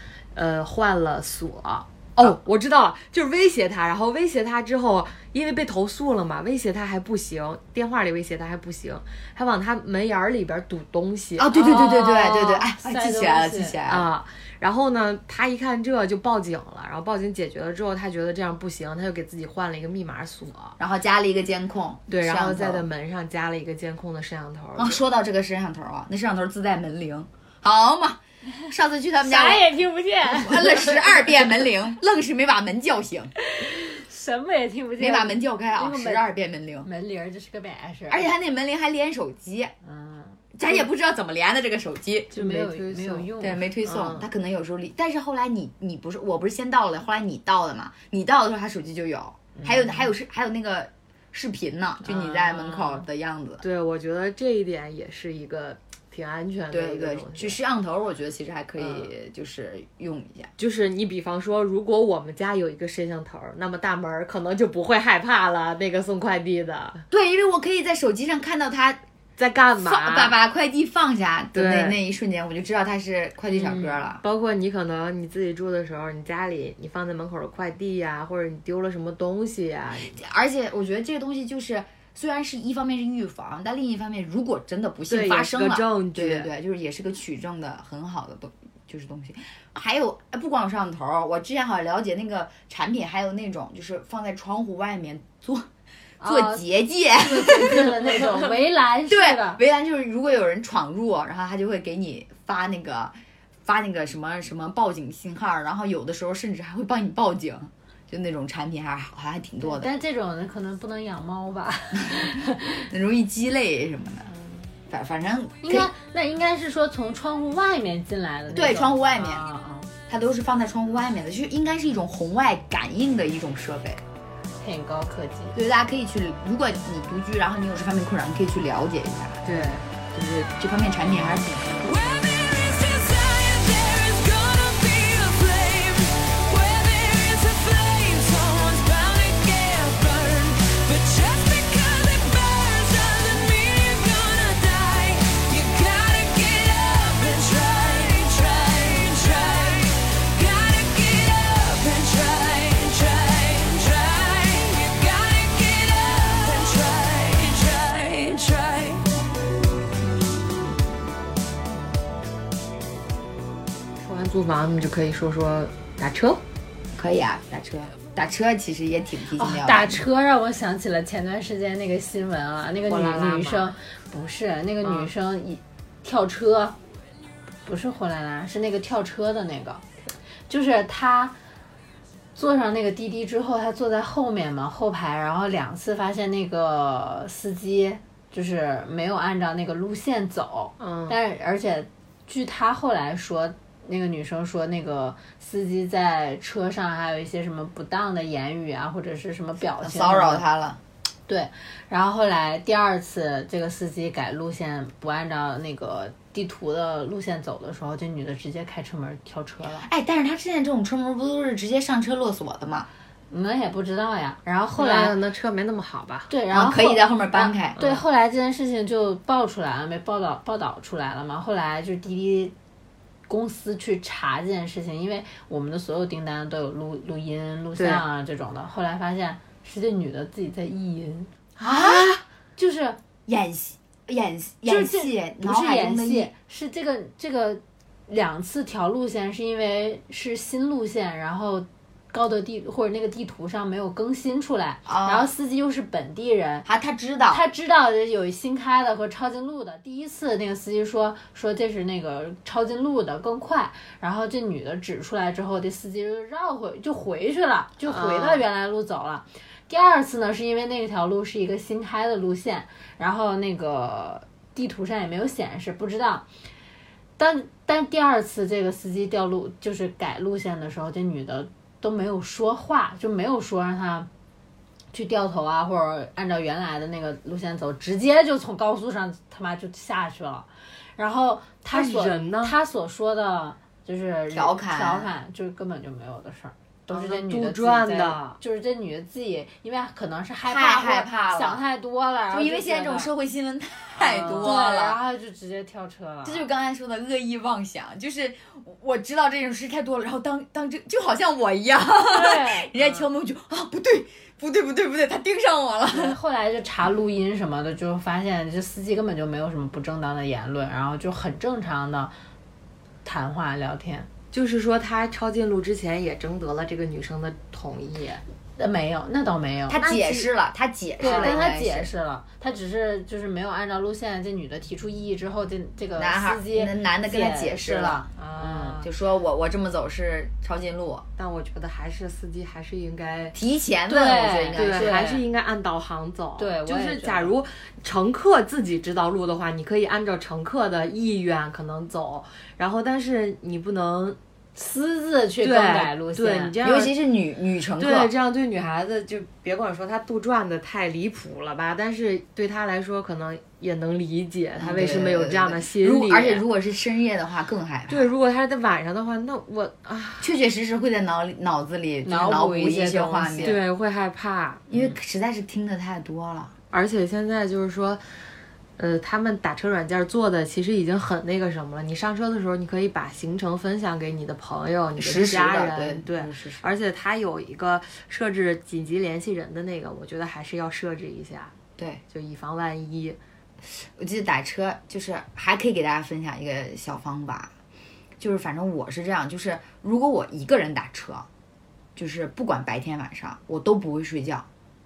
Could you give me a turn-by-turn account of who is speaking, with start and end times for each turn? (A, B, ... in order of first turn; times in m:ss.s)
0:00.3-0:11.8 A
0:11.4-0:14.1 B
0:11.5-0:13.8 C
0:13.9-0:20.8 A
0:20.8-0:22.8 B
0:22.1-0:25.0 A
0:24.8-0:33.3 B
0:29.2-0:31.4 C
0:33.4-0:36.3 C
0:35.0-0:36.9 B
0:36.8-0:38.2 C
0:38.1-0:39.7 B
0:39.8-0:40.5 C
0:40.5-0:42.3 B
0:42.3-0:44.3 A
0:42.3-0:43.6 C
0:43.4-0:53.6 B
0:52.0-0:53.0 A
0:53.6-0:57.6 A
0:56.7-1:00.5 B
0:58.8-0:59.1 A
1:00.6-1:07.0 A
1:07.1-1:09.0 B
1:09.4-1:10.4 A
1:09.8-1:14.2 B
1:11.5-1:12.0 A
1:13.5-1:20.2 A
1:20.1-1:35.7 B
1:25.1-1:26.5 A
1:36.2-1:36.6 C
1:36.2-1:38.5 B
1:37.2-1:39.6 C
1:39.1-1:43.1 B
1:43.6-1:49.9 B
1:49.6-1:52.8 C
1:52.0-1:54.3 B
1:54.9-1:55.9 B
1:55.6-1:59.9 C
1:58.5-1:59.4 B
2:00.1-2:04.0 B
2:04.6-2:05.6 C
2:05.5-2:09.4 B
2:09.4-2:09.8 A
2:10.1-2:11.8 B
2:11.7-2:39.0 D
2:44.0-2:46.4 A
2:46.9-2:50.0 B
2:49.4-2:56.8 C
2:52.9-2:53.7 A
2:54.8-2:55.1 A
2:57.6-2:59.8 C
3:00.5-3:01.3 C
3:02.4-3:20.4 C
3:10.8-3:11.2 A
3:19.8-3:20.8 B
3:21.3-3:29.8 C
3:29.8-3:32.9 B
3:33.3-3:35.1 C
3:34.8-3:36.3 A
3:36.3-3:42.5 C
3:36.5-3:37.8 B
3:37.8-3:38.0 A
3:43.3-3:51.3 C
3:47.8-3:48.0 A
3:51.6-3:52.2 A
3:51.6-3:52.2 B
3:52.6-3:53.0 C
3:53.3-3:56.3 B
3:54.6-4:06.7 C
4:04.9-4:05.3 B
4:06.6-4:07.4 B
4:07.3-4:26.2 C
4:17.8-4:18.4 A
4:27.2-4:34.1 C
4:34.9-4:53.1 C
4:41.7-4:42.5 A
4:44.3-4:45.1 B
4:46.9-4:48.4 A
4:50.4-4:51.6 B
4:52.3-4:55.0 B
4:54.1-4:56.5 C
4:54.2-4:54.5 A
4:56.2-5:06.2 B
5:02.0-5:02.7 C
5:05.9-5:12.1 C
5:13.0-5:14.1 C
5:14.3-5:18.2 A
5:18.6-5:19.8 C
5:19.7-5:21.9 B
5:19.8-5:20.3 A
5:21.0-5:28.8 C
5:21.0-5:21.4 A
5:26.0-5:28.1 B
5:28.2-5:28.8 A
5:28.8-5:31.0 B
5:31.2-5:33.4 A
5:33.3-5:35.0 B
5:33.9-5:35.2 C
5:34.6-5:44.2 A
5:36.4-5:37.3 C
5:44.6-5:46.5 C
5:45.4-5:46.9 A
5:46.6-5:48.1 B
5:47.8-5:56.4 A
5:54.6-5:58.1 B
5:57.9-6:00.3 A
6:00.2-6:03.6 B
6:02.0-6:03.6 C
6:03.4-6:04.8 A
6:04.7-6:06.5 B
6:06.7-6:08.0 A
6:08.8-6:21.5 A
6:15.0-6:16.7 B
6:21.8-6:22.0 B
6:22.1-6:23.2 A
6:23.7-6:27.5 B
6:28.2-6:31.3 B
6:32.0-6:34.4 B